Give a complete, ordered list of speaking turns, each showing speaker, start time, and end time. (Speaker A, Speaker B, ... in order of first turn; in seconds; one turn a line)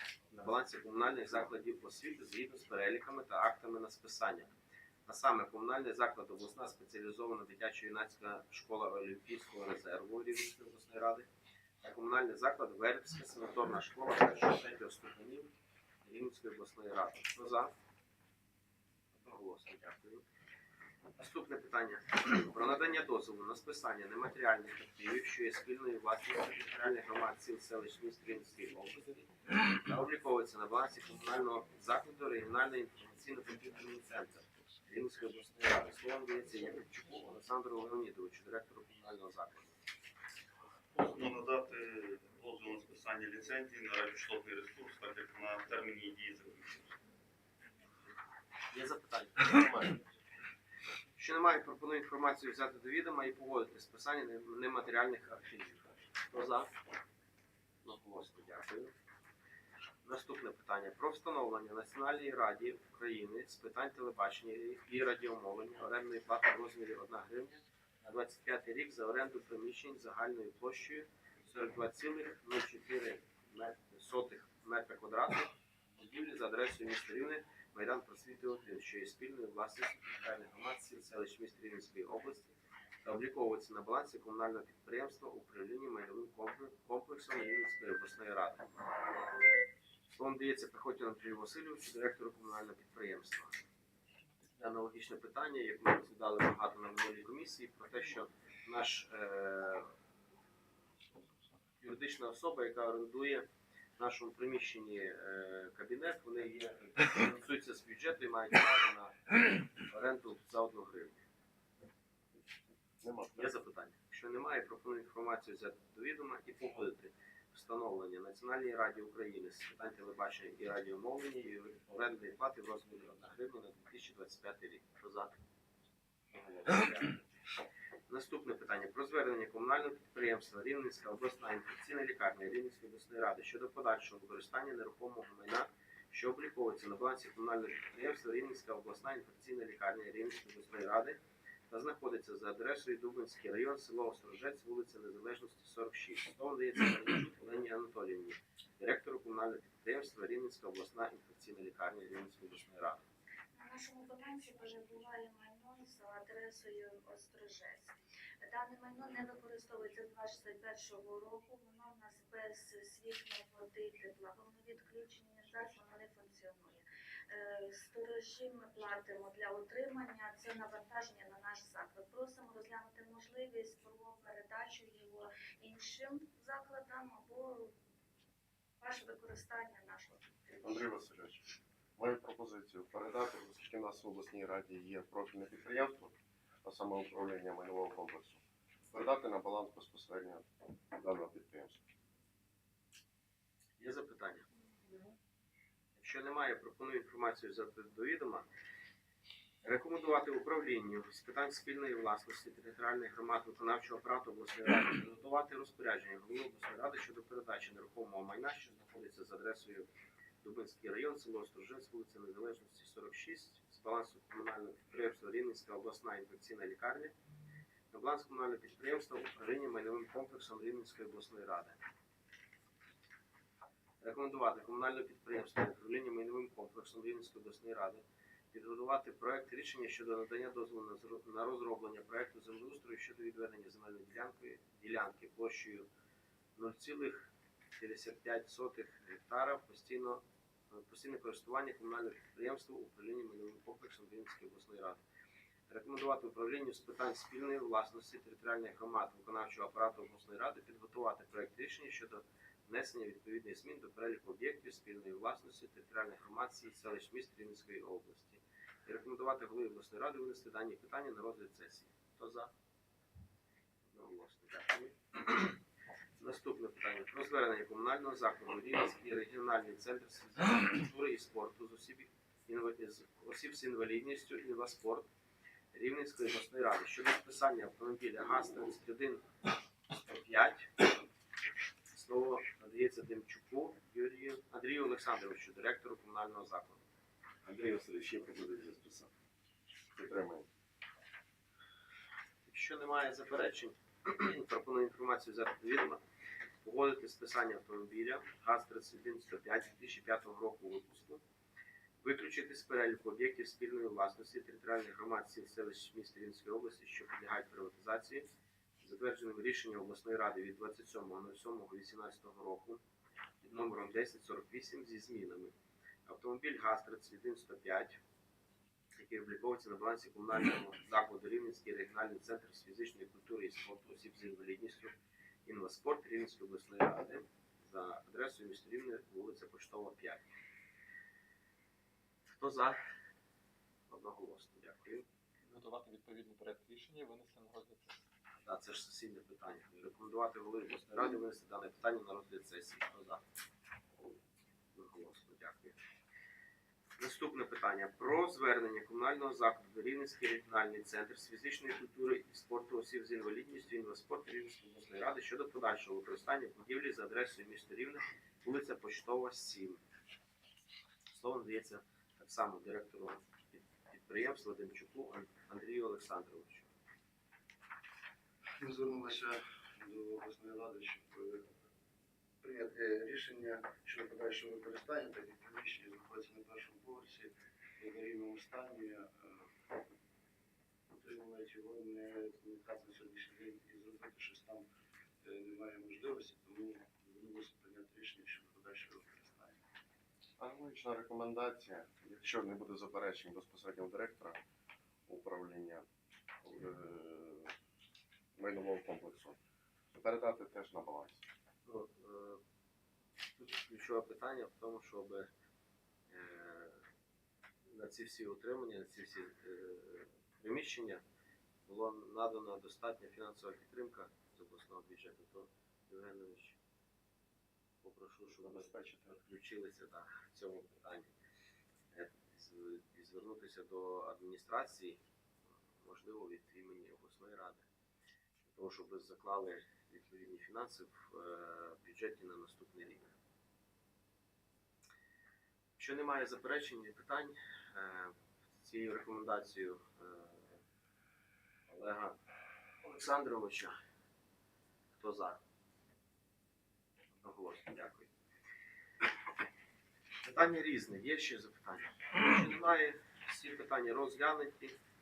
Speaker A: 0.3-4.5
Speaker A: 5.0-11.3
Speaker A: 11.8-15.5
Speaker A: 16.0-17.7
Speaker A: 19.1-20.2
Speaker A: 21.2-39.8
Speaker B: 40.9-47.0
Speaker A: 48.7-50.0
Speaker A: 51.1-56.7
Speaker A: 57.8-58.9
Speaker A: 60.0-88.8
Speaker A: 90.1-93.5
Speaker A: 94.6-99.9
Speaker A: 101.8-103.5
Speaker A: 104.0-111.2
Speaker C: 113.0-113.5
Speaker A: 113.3-125.3
Speaker A: 126.3-127.2
Speaker A: 128.1-153.1
Speaker D: 153.5-177.7
Speaker D: 178.8-180.8
Speaker C: 180.6-188.4
Speaker C: 188.9-191.8
Speaker A: 193.8-194.5
Speaker A: 195.9-198.5
Speaker A: 199.6-209.9
Speaker A: 210.4-217.1
Speaker A: 217.9-221.8
Speaker A: 224.0-235.9
Speaker A: 236.6-245.0
Speaker A: 245.7-262.5
Speaker A: 263.9-265.6
Speaker A: 266.2-275.1
Speaker A: 275.7-279.2
Speaker A: 279.9-280.9
Speaker A: 281.9-286.8
Speaker C: 287.4-289.1
Speaker C: 289.9-290.5
Speaker A: 292.4-296.0
Speaker A: 296.6-301.2
Speaker A: 302.0-308.3
Speaker A: 308.8-312.8
Speaker A: 313.4-315.5
Speaker A: 316.1-318.0
Speaker A: 318.9-330.3
Speaker A: 332.3-332.8
Speaker A: 333.9-335.1
Speaker E: 335.5-338.0
Speaker A: 338.4-343.2
Speaker A: 344.7-345.8
Speaker A: 347.0-359.8
Speaker A: 361.1-366.7
Speaker F: 368.6-371.5
Speaker F: 372.4-379.5
Speaker F: 380.9-384.6
Speaker F: 385.2-389.6
Speaker C: 390.4-394.4
Speaker C: 395.1-395.8
Speaker C: 396.4-397.5
Speaker C: 398.4-399.4
Speaker C: 399.9-401.2
Speaker A: 401.6-402.4
Speaker A: 403.3-405.3
Speaker A: 406.1-406.8
Speaker A: 407.7-411.0
Speaker A: 411.6-416.6
Speaker A: 417.8-421.1
Speaker C: 418.4-419.1
Speaker A: 421.9-425.0
Speaker A: 425.8-427.6
Speaker A: 428.5-433.0
Speaker A: 435.8-440.6
Speaker A: 441.7-442.2
Speaker A: 442.8-443.8
Speaker A: 444.9-445.4
Speaker A: 447.1-448.1
Speaker A: 450.2-454.8